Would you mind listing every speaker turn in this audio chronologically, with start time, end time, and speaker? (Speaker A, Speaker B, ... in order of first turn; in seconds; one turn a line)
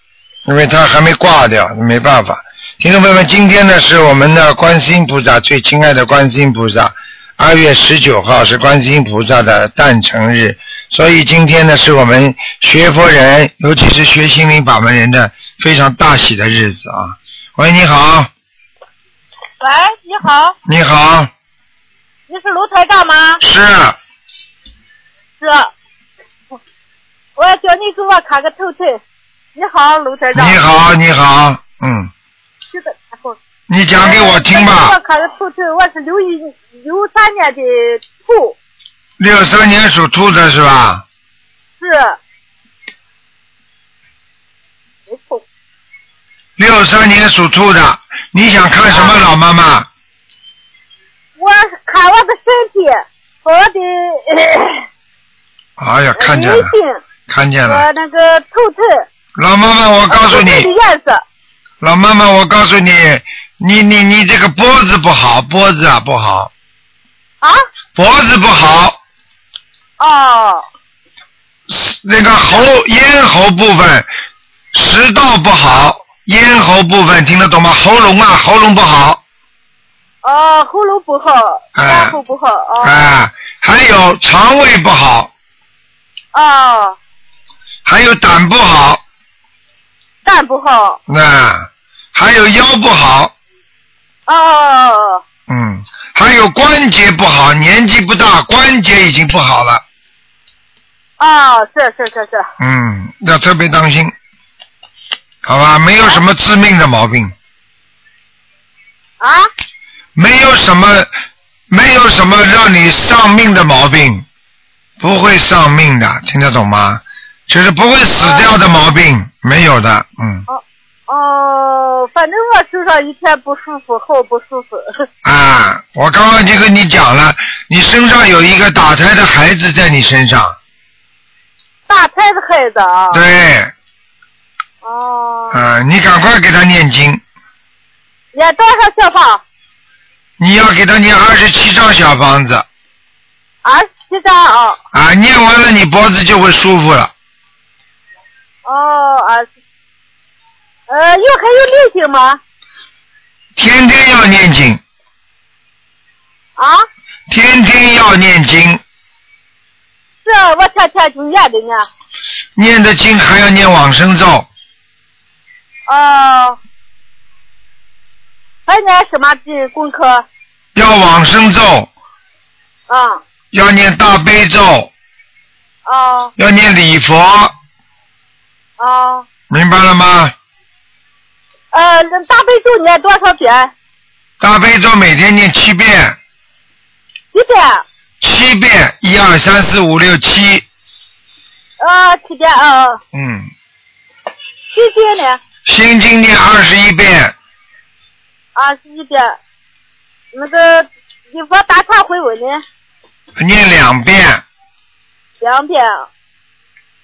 Speaker A: 0.5-18.3
Speaker B: 19.6-20.6
Speaker A: 20.7-21.3
Speaker B: 22.3-23.4
Speaker A: 23.4-24.0
Speaker B: 25.4-25.7
Speaker B: 27.4-29.0
Speaker B: 29.6-30.6
Speaker A: 30.3-32.1
Speaker B: 32.7-33.4
Speaker A: 33.7-35.0
Speaker B: 34.0-38.6
Speaker A: 39.2-41.0
Speaker B: 41.8-42.2
Speaker B: 45.1-45.4
Speaker A: 46.6-49.9
Speaker B: 51.4-54.9
Speaker A: 55.8-56.7
Speaker B: 56.2-57.0
Speaker A: 57.3-57.9
Speaker B: 57.7-59.1
Speaker A: 59.4-60.7
Speaker B: 60.1-61.2
Speaker A: 61.8-66.5
Speaker A: 68.0-69.0
Speaker B: 70.0-70.6
Speaker A: 71.7-74.1
Speaker A: 74.7-79.2
Speaker B: 80.2-83.1
Speaker A: 81.8-82.2
Speaker A: 82.8-85.3
Speaker B: 86.3-87.0
Speaker A: 87.9-89.0
Speaker B: 90.2-91.0
Speaker A: 91.1-93.3
Speaker B: 94.3-95.2
Speaker A: 95.5-99.8
Speaker B: 101.2-102.5
Speaker A: 102.6-104.1
Speaker A: 105.5-107.3
Speaker B: 109.2-109.5
Speaker A: 110.2-111.1
Speaker A: 111.7-114.2
Speaker A: 115.0-120.5
Speaker B: 118.2-118.5
Speaker B: 120.5-125.1
Speaker A: 125.2-130.6
Speaker B: 131.9-133.2
Speaker A: 133.1-133.7
Speaker B: 134.8-135.6
Speaker A: 135.5-137.2
Speaker B: 138.3-139.4
Speaker A: 140.4-142.7
Speaker B: 143.6-144.8
Speaker A: 144.9-147.1
Speaker B: 148.7-149.5
Speaker B: 150.9-152.4
Speaker A: 153.6-154.8
Speaker B: 156.6-156.8
Speaker A: 157.3-158.8
Speaker B: 160.2-161.9
Speaker A: 162.6-164.5
Speaker B: 165.9-166.6
Speaker B: 168.7-170.3
Speaker A: 170.8-171.9
Speaker B: 172.9-173.2
Speaker A: 173.5-174.9
Speaker B: 175.9-176.3
Speaker A: 176.4-177.5
Speaker B: 178.8-179.3
Speaker A: 179.5-180.3
Speaker B: 181.7-183.7
Speaker A: 184.4-186.2
Speaker B: 187.3-187.8
Speaker A: 188.2-190.7
Speaker B: 191.8-193.0
Speaker A: 193.1-193.5
Speaker B: 194.7-195.4
Speaker A: 195.7-197.3
Speaker B: 198.6-199.4
Speaker B: 200.3-202.6
Speaker A: 203.4-204.4
Speaker B: 205.4-206.1